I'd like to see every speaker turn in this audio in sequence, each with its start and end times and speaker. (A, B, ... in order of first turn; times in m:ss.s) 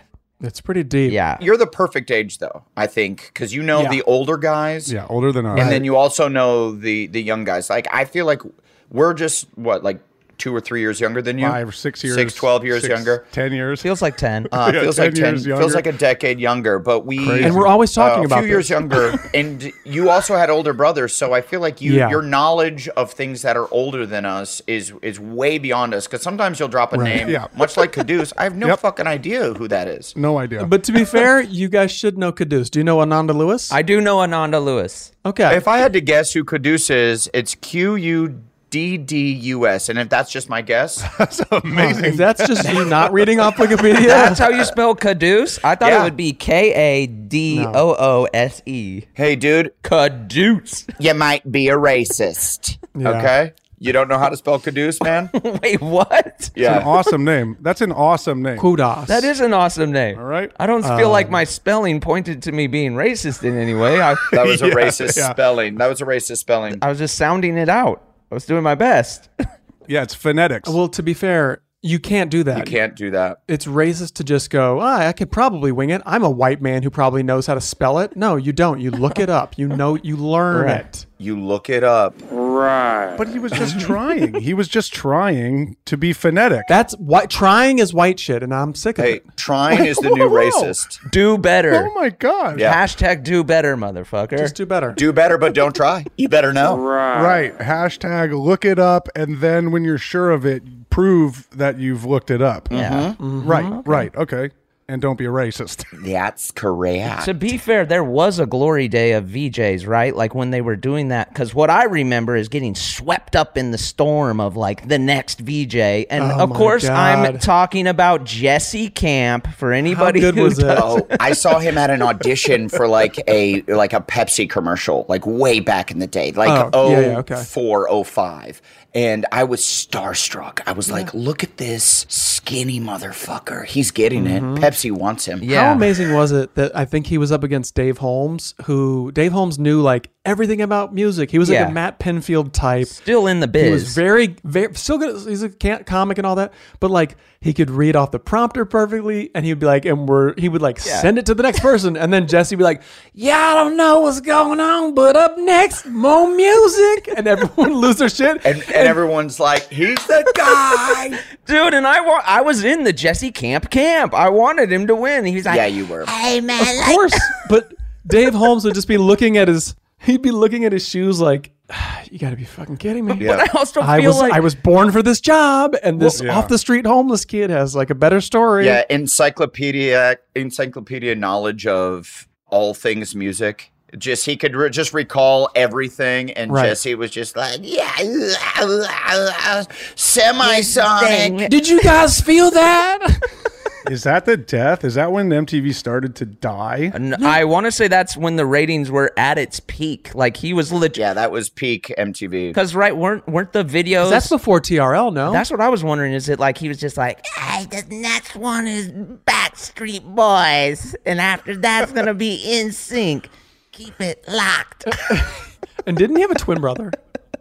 0:00.4-0:01.2 A
0:01.1-0:01.4 B
0:01.4-0:04.9 C
0:03.7-0:04.0 A
0:04.8-0:05.8 D
0:05.5-0:05.8 A
0:05.5-0:13.2 C
0:11.4-0:13.9 D
0:13.8-0:14.5 B
0:14.5-0:15.9 D
0:14.5-0:30.1 C
0:17.2-0:17.7 D
0:17.4-0:18.7 A
0:21.8-0:22.2 A
0:26.9-0:27.3 A
0:27.2-0:27.5 D
0:30.1-0:30.7 D
0:30.6-0:33.8 A
0:33.7-0:35.1 B
0:35.2-0:35.6 A
0:35.5-0:41.1 C
0:41.0-0:43.5 D
0:41.7-0:44.4 A
0:44.0-0:49.1 B
0:45.8-0:46.1 C
0:47.5-0:47.8 A
0:49.2-0:49.7 C
0:49.8-0:50.9 B
0:51.0-0:55.3 C
0:52.9-0:53.3 A
0:55.3-0:56.8 B
0:56.6-0:56.9 C
0:56.6-0:58.7 D
0:58.6-0:59.3 A
0:59.1-1:04.6 B
1:00.1-1:00.5 D
1:00.8-1:01.4 A
1:04.3-1:06.8 C
1:04.4-1:05.4 D
1:06.8-1:09.3 B
1:09.9-1:10.8 D
1:10.6-1:12.8 A
1:12.5-1:13.4 C
1:13.5-1:21.1 A
1:20.5-1:20.8 B
1:21.2-1:22.2 C
1:23.1-1:26.7 D
1:26.7-1:29.2 A
1:29.0-1:31.0 C
1:30.1-1:30.7 D
1:31.1-1:31.9 B
1:31.7-1:32.7 D
1:32.5-1:32.8 C
1:32.5-1:34.5 B
1:34.3-1:35.0 A
1:35.0-1:36.9 C
1:37.1-1:42.7 D
1:42.7-1:43.2 C
1:42.7-1:44.1 B
1:43.2-1:43.8 A
1:43.4-1:45.9 D
1:46.0-1:47.3 C
1:47.2-2:01.1 B
1:56.2-1:57.5 A
1:59.8-2:01.0 A
2:00.7-2:15.4 C
2:06.4-2:07.5 A
2:14.1-2:14.7 A
2:15.4-2:15.9 B
2:15.4-2:23.0 A
2:21.4-2:21.8 B
2:22.9-2:24.0 B
2:23.6-2:39.0 A
2:30.8-2:31.1 B
2:38.4-2:41.2 C
2:40.9-2:47.2 B
2:45.4-2:46.1 C
2:46.6-2:58.8 A
2:53.1-2:54.4 B
2:53.2-2:53.5 C
2:56.1-2:56.5 D
2:58.6-3:11.5 C
3:06.5-3:06.8 A
3:10.4-3:11.6 B
3:11.5-3:13.2 A
3:13.8-3:16.9 D
3:16.9-3:21.0 B
3:20.9-3:22.6 C
3:22.5-3:24.3 B
3:24.0-3:25.4 A
3:25.2-3:35.1 B
3:34.9-3:36.9 A